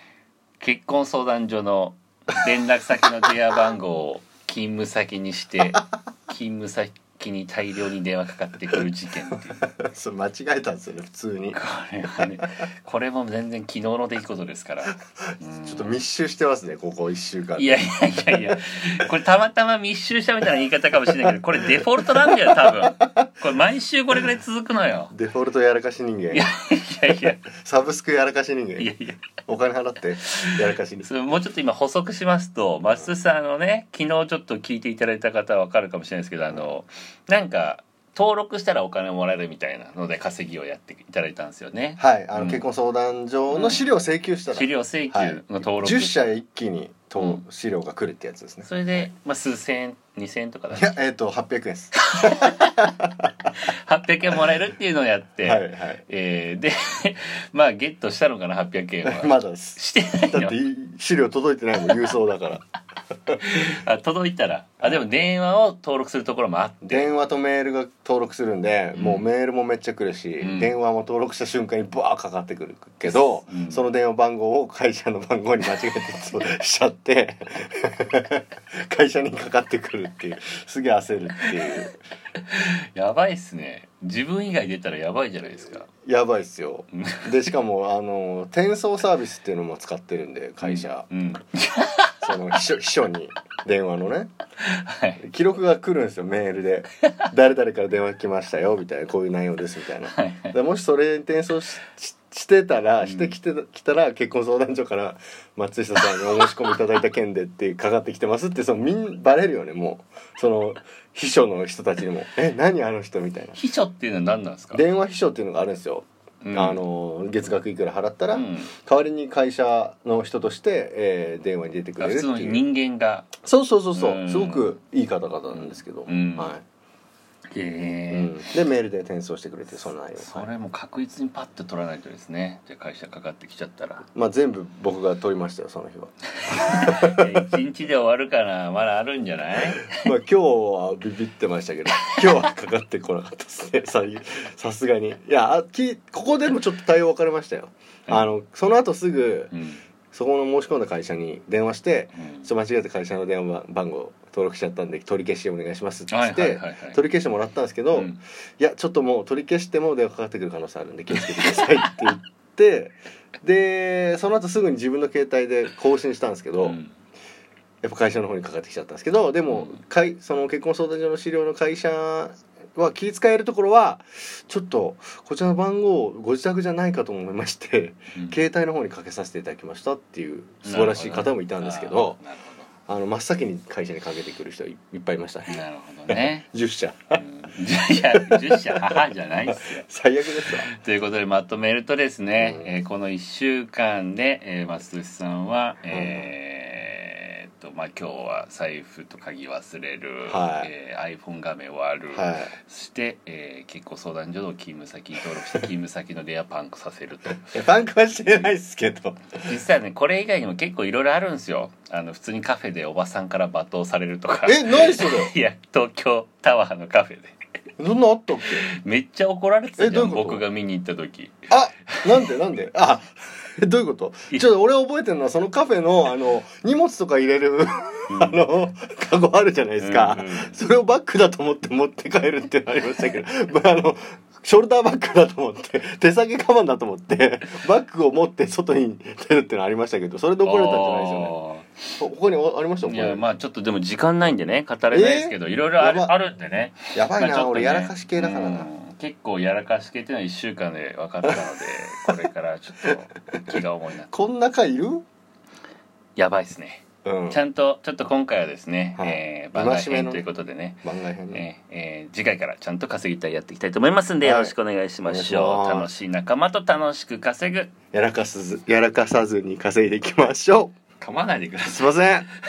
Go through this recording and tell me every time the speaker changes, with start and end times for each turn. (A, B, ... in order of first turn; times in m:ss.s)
0:00.6-0:09.7 A
0:09.6-0:11.6 B
0:11.5-0:15.9 A
0:12.2-0:12.6 B
0:15.6-0:18.5 B
0:17.6-0:25.1 A
0:21.2-0:22.9 B
0:25.1-0:26.4 B
0:26.3-0:27.4 A
0:27.1-0:31.1 B
0:28.8-0:29.2 A
0:30.4-0:42.6 A
0:42.0-0:48.7 B
0:43.5-0:43.8 A
0:44.5-0:46.2 A
0:48.6-0:50.9 A
0:50.7-0:53.5 B
0:52.1-0:52.9 A
0:53.6-1:00.6 A
0:55.4-0:56.0 B
0:59.0-1:02.6 B
1:03.4-1:07.1 A
1:06.9-1:22.0 B
1:08.9-1:09.2 A
1:10.4-1:10.7 A
1:13.0-1:13.8 A
1:21.4-1:21.9 A
1:22.4-1:25.9 A
1:26.0-1:31.1 B
1:26.9-1:27.5 A
1:30.6-1:32.3 A
1:32.2-1:34.3 B
1:34.6-1:35.2 A
1:35.2-1:53.6 B
1:40.1-1:40.5 A
1:43.0-1:43.3 A
1:53.6-1:54.8 A
1:54.7-2:02.6 B
1:56.4-1:56.8 A
1:58.3-1:58.7 A
2:02.0-2:03.3 A
2:03.4-2:06.6 B
2:03.9-2:04.7 A
2:05.5-2:06.5 A
2:07.5-2:08.5 A
2:08.1-2:10.5 B
2:10.2-2:14.0 A
2:14.1-2:17.4 B
2:16.4-2:19.9 A
2:19.8-2:29.5 B
2:29.5-2:29.8 A
2:30.1-2:46.8 B
2:32.2-2:32.5 A
2:36.1-2:37.0 A
2:37.9-2:38.2 A
2:41.1-2:41.9 A
2:46.6-2:46.9 A
2:47.8-3:02.2 B
2:49.5-2:49.8 A
2:58.1-2:58.4 A
3:00.6-3:02.7 A
3:02.9-3:07.2 B
3:05.5-3:06.4 A
3:07.2-3:09.8 A
3:08.1-3:10.7 B
3:10.6-3:27.6 A
3:12.4-3:12.7 B
3:15.9-3:16.3 B
3:20.3-3:20.7 B
3:22.1-3:22.5 B
3:27.5-3:29.5 B
3:29.4-3:37.3 A
3:34.4-3:35.3 B
3:37.8-3:38.7 B
3:38.7-3:41.4 A
3:39.8-3:40.4 B
3:41.5-4:01.3 B
3:42.0-3:42.3 A
3:48.1-3:48.4 A
3:49.8-3:50.6 A
4:00.4-4:01.8 A
4:02.0-4:03.2 B
4:02.8-4:14.1 A
4:04.9-4:06.1 B
4:06.9-4:08.7 B
4:14.1-4:15.0 B
4:16.2-4:27.7 A
4:17.0-4:17.4 B
4:19.0-4:20.2 B
4:20.8-4:21.4 B
4:24.2-4:25.9 B
4:27.9-4:30.7 B
4:31.0-4:32.0 A
4:31.7-4:32.3 B